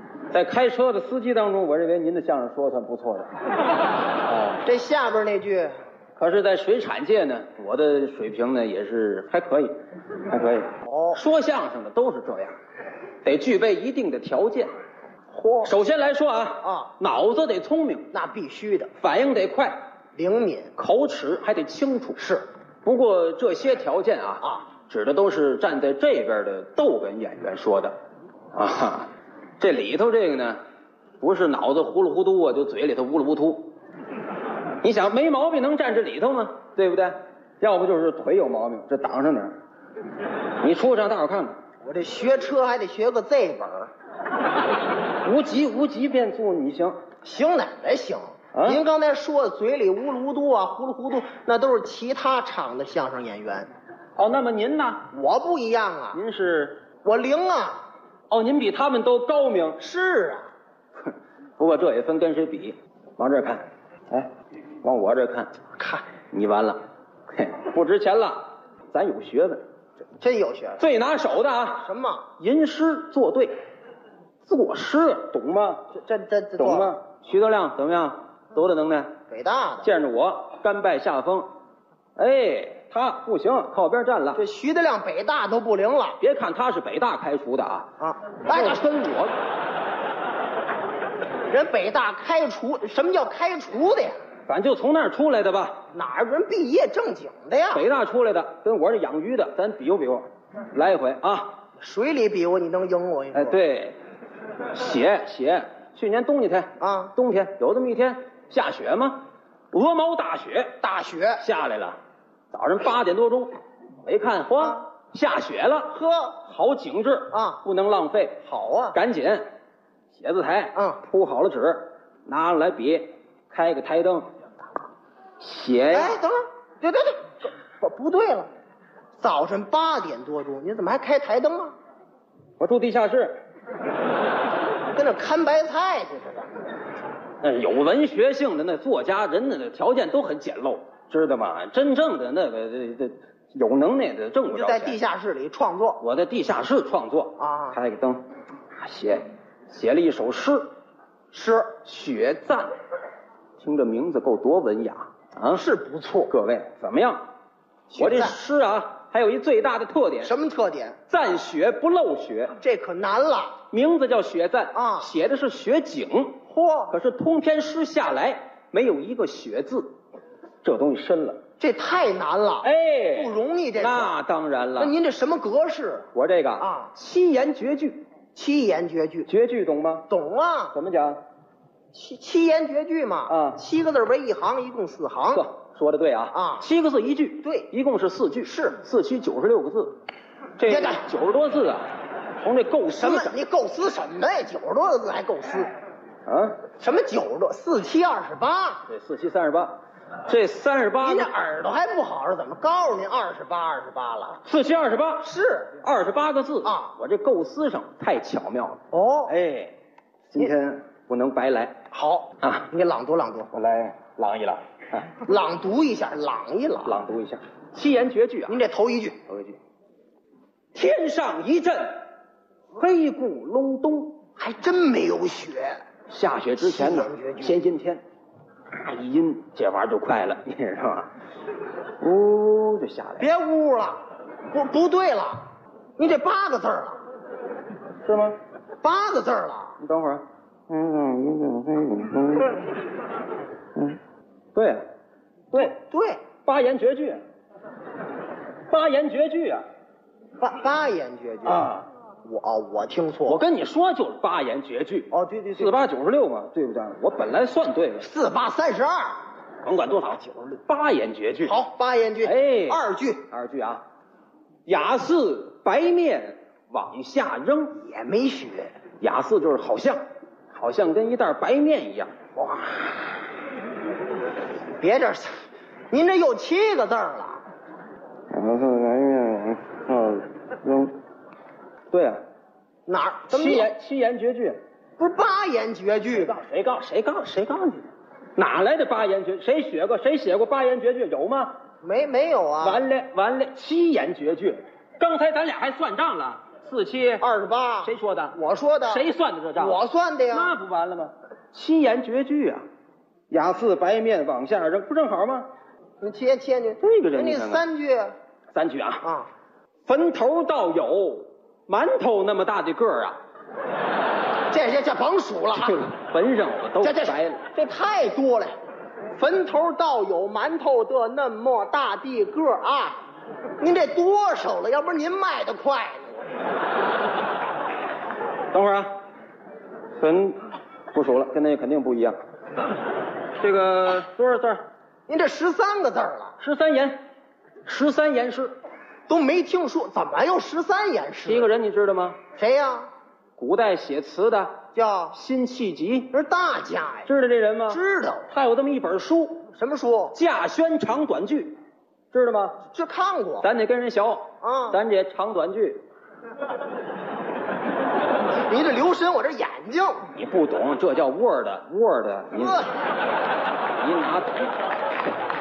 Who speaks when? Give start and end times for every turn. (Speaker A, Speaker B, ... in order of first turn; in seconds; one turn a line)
Speaker A: 0.3-3.3
Speaker A: 4.3-4.6
Speaker B: 4.6-5.7
Speaker A: 6.2-9.8
Speaker A: 10.3-12.5
Speaker B: 10.8-11.2
Speaker A: 13.2-14.7
Speaker B: 15.3-15.7
Speaker A: 15.6-18.1
Speaker B: 16.6-16.9
Speaker B: 18.1-18.9
Speaker A: 19.0-19.8
Speaker B: 20.1-20.7
Speaker A: 20.8-22.2
Speaker B: 22.2-22.4
Speaker A: 22.8-27.9
Speaker A: 28.5-30.6
Speaker A: 31.2-33.7
Speaker A: 34.8-39.5
Speaker A: 40.6-41.6
Speaker B: 41.8-43.9
Speaker A: 45.2-47.0
Speaker B: 47.2-53.7
Speaker A: 48.5-48.8
Speaker A: 54.2-55.1
Speaker B: 55.1-56.2
Speaker A: 56.1-56.8
Speaker B: 57.0-57.8
Speaker A: 58.3-59.8
Speaker B: 59.8-60.5
Speaker A: 61.6-64.3
Speaker A: 64.8-65.5
Speaker B: 65.8-66.1
Speaker A: 66.3-66.8
Speaker A: 67.3-69.6
Speaker B: 70.2-70.8
Speaker A: 70.8-73.5
Speaker B: 71.8-72.3
Speaker A: 74.5-75.9
Speaker B: 75.9-76.9
Speaker A: 76.6-79.1
Speaker B: 79.3-79.9
Speaker A: 79.8-81.5
Speaker A: 82.2-84.4
Speaker B: 84.4-86.2
Speaker A: 86.2-87.9
Speaker B: 88.0-88.8
Speaker A: 88.5-89.3
Speaker B: 91.5-94.2
Speaker A: 94.5-95.8
Speaker B: 95.9-97.9
Speaker A: 97.7-101.6
Speaker B: 101.8-103.6
Speaker A: 103.3-104.0
Speaker A: 104.7-109.2
Speaker B: 106.8-107.1
Speaker A: 109.7-110.8
Speaker B: 110.8-111.4
Speaker A: 111.4-112.0
Speaker A: 112.5-119.4
Speaker B: 115.9-116.4
Speaker B: 117.3-117.6
Speaker B: 118.5-119.0
Speaker A: 120.1-124.3
Speaker B: 120.8-121.0
Speaker A: 125.4-126.2
Speaker B: 125.9-128.5
Speaker B: 129.2-131.8
Speaker A: 132.6-133.4
Speaker B: 134.9-136.6
Speaker A: 137.4-145.0
Speaker B: 144.5-146.0
Speaker A: 146.0-148.2
Speaker B: 147.4-147.8
Speaker A: 148.8-150.7
Speaker B: 151.3-151.7
Speaker A: 151.8-152.7
Speaker A: 153.6-155.6
Speaker B: 155.5-156.3
Speaker A: 156.3-157.2
Speaker B: 157.9-158.4
Speaker A: 157.9-160.3
Speaker B: 160.2-161.0
Speaker A: 161.1-162.6
Speaker B: 162.6-163.5
Speaker A: 163.7-169.9
Speaker B: 164.7-165.1
Speaker B: 166.5-166.9
Speaker A: 170.6-171.4
Speaker B: 171.6-174.2
Speaker A: 172.6-174.9
Speaker B: 174.8-176.9
Speaker A: 176.1-178.1
Speaker B: 178.3-179.3
Speaker A: 179.3-180.1
Speaker B: 180.1-180.8
Speaker A: 180.7-181.2
Speaker B: 181.9-185.4
Speaker A: 183.3-183.6
Speaker A: 185.3-190.0
Speaker B: 186.3-186.7
Speaker B: 187.4-187.7
Speaker B: 188.4-188.8
Speaker A: 190.6-191.9
Speaker B: 190.7-191.0
Speaker A: 192.4-193.4
Speaker B: 192.9-195.7
Speaker A: 196.2-196.7
Speaker B: 196.8-198.8
Speaker A: 198.9-201.3
Speaker B: 201.0-204.4
Speaker A: 204.4-205.3
Speaker B: 205.2-205.7
Speaker A: 205.8-209.8
Speaker B: 206.6-206.9
Speaker B: 208.9-209.3
Speaker A: 210.3-211.8
Speaker B: 211.9-213.5
Speaker A: 212.4-212.7
Speaker A: 213.5-215.2
Speaker B: 215.2-217.0
Speaker A: 216.8-218.6
Speaker B: 218.5-219.2
Speaker A: 219.3-219.6
Speaker A: 220.7-222.0
Speaker A: 222.8-224.2
Speaker B: 224.4-225.8
Speaker A: 226.1-228.0
Speaker B: 226.6-227.6
Speaker A: 228.7-231.1
Speaker A: 232.0-233.3
Speaker B: 233.2-234.0
Speaker B: 234.5-235.5
Speaker B: 236.0-237.0
Speaker A: 238.1-238.4
Speaker B: 238.8-239.8
Speaker A: 239.8-242.7
Speaker A: 244.6-244.8
Speaker A: 245.5-245.8
Speaker B: 245.6-246.2
Speaker A: 246.4-247.2
Speaker A: 248.7-249.6
Speaker B: 250.4-251.7
Speaker A: 251.4-251.9
Speaker B: 252.2-253.4
Speaker A: 253.3-258.1
Speaker B: 255.1-255.8
Speaker B: 258.0-259.2
Speaker A: 259.6-261.6
Speaker B: 261.4-263.2
Speaker A: 262.2-263.8
Speaker A: 264.7-267.8
Speaker B: 267.8-268.7
Speaker A: 269.0-272.7
Speaker B: 274.8-275.3
Speaker B: 275.9-277.4
Speaker A: 278.3-280.9
Speaker A: 281.9-282.2
Speaker B: 282.9-283.7
Speaker A: 283.3-284.6
Speaker B: 285.0-286.3
Speaker A: 286.1-291.5
Speaker B: 291.8-292.9
Speaker A: 292.6-297.2
Speaker B: 297.2-299.0
Speaker A: 297.8-299.8
Speaker B: 299.6-300.5
Speaker A: 300.3-302.6
Speaker A: 303.3-305.5
Speaker B: 306.0-308.1
Speaker A: 306.8-307.6
Speaker A: 308.6-309.1
Speaker B: 309.0-309.3
Speaker A: 309.9-313.2
Speaker B: 314.5-315.9
Speaker A: 315.6-317.4
Speaker B: 316.8-318.6
Speaker B: 319.1-323.0
Speaker B: 323.6-326.2
Speaker A: 328.5-328.9
Speaker A: 330.0-330.4
Speaker A: 330.9-332.2
Speaker A: 333.4-334.6
Speaker B: 335.1-336.4
Speaker A: 336.4-337.0
Speaker A: 337.7-338.6
Speaker B: 339.1-341.5
Speaker A: 341.2-342.2
Speaker B: 342.4-342.9
Speaker A: 343.4-346.1
Speaker B: 344.8-345.2
Speaker B: 346.1-347.1
Speaker A: 347.1-349.5
Speaker B: 347.7-348.3
Speaker B: 349.5-350.2
Speaker A: 350.1-351.6
Speaker A: 352.1-352.6
Speaker B: 352.7-353.5
Speaker A: 353.4-355.8
Speaker B: 354.4-354.8
Speaker B: 358.5-360.1
Speaker A: 360.1-362.7
Speaker B: 362.3-362.7
Speaker A: 363.8-364.7